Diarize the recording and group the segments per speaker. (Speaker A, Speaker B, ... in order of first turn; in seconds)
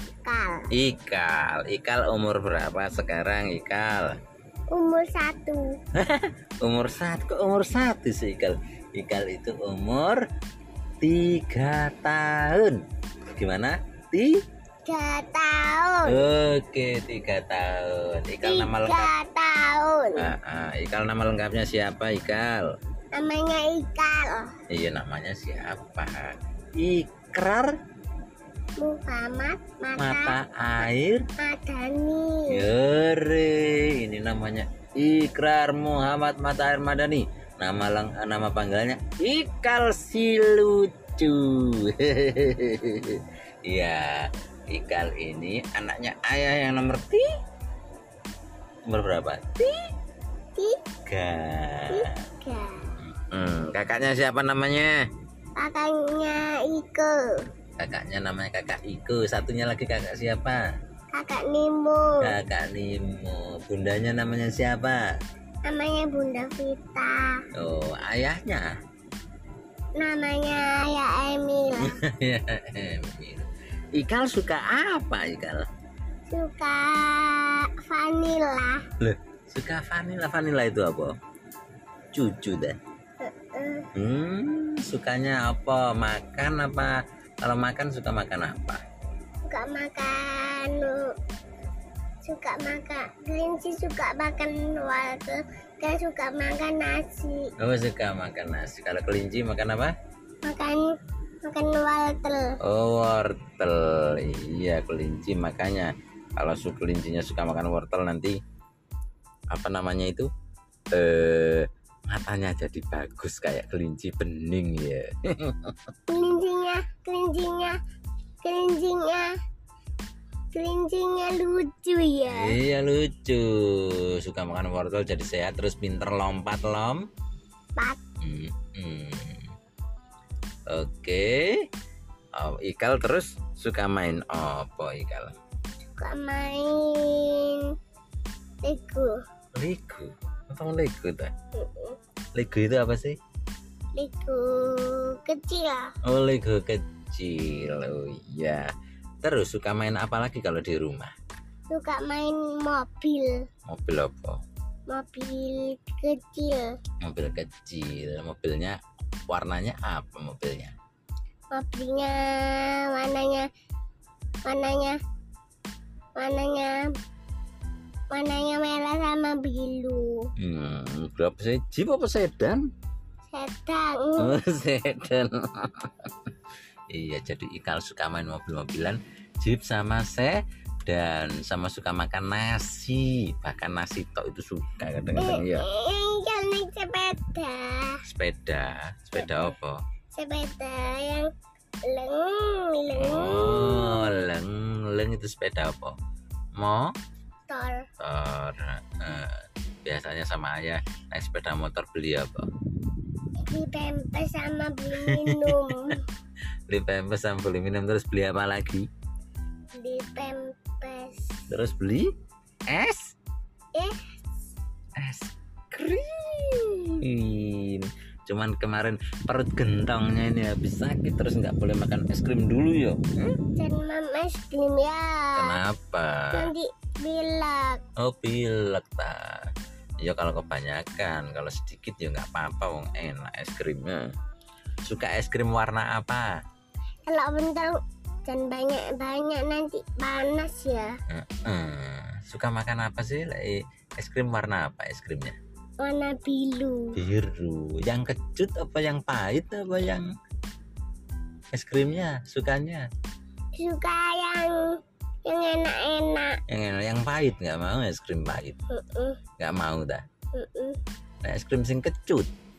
Speaker A: 0.3-0.7, 4.7-5.8, 14.8-16.2, 18.4-20.3, 23.1-24.5, 28.8-30.4, 31.4-32.6, 51.9-52.9, 55.6-57.2, 61.1-62.3, 65.7-67.4, 70.0-72.0, 76.3-78.9, 83.2-83.9, 89.5-91.1, 92.2-97.5, 100.4-100.9, 101.4-102.6, 116.1-117.8, 118.4-119.3, 120.5-122.6, 135.9-137.7, 138.6-139.2, 141.6-142.0, 144.0-145.9, 151.7-153.4, 154.9-156.7, 161.5-163.5, 164.5-165.0, 166.2-166.9, 168.1-170.3, 173.3-174.4, 185.2-188.0, 190.1-191.3, 191.9-194.2, 197.5-197.8, 203.4-206.0, 209.8-211.4, 213.8-214.2, 223.6-225.6, 226.3-227.8, 237.1-240.9, 245.8-247.0, 253.6-256.4, 258.7-259.2, 260.4-260.8
Speaker B: 0.7-4.2, 6.0-10.2, 11.0-12.8, 13.3-14.4, 16.1-19.1, 20.2-22.7, 24.7-27.8, 30.0-31.3, 32.5-47.3, 48.9-49.9, 51.1-52.2, 53.0-55.1, 57.8-60.6, 62.2-65.2, 67.5-68.7, 71.8-75.7, 79.0-81.2, 82.1-82.8, 84.0-88.8, 97.6-99.9, 102.6-108.4, 109.5-110.3, 110.9-115.8, 122.3-127.1, 128.2-129.5, 130.7-131.7, 132.4-135.4, 139.6-141.3, 142.4-143.2, 146.1-151.1, 153.7-154.4, 157.0-158.8, 159.3-160.7, 170.4-172.7, 174.2-176.3, 176.9-185.7, 188.1-189.8, 192.9-196.0, 196.6-196.9, 198.0-202.5, 204.9-206.0, 206.7-208.9, 211.5-212.1, 212.7-213.2, 215.0-223.4, 225.4-226.5, 228.0-229.5, 230.0-234.1, 234.8-236.3, 241.1-245.4, 247.0-250.1, 251.5-252.9, 256.5-258.6, 259.4-260.0, 261.2-262.3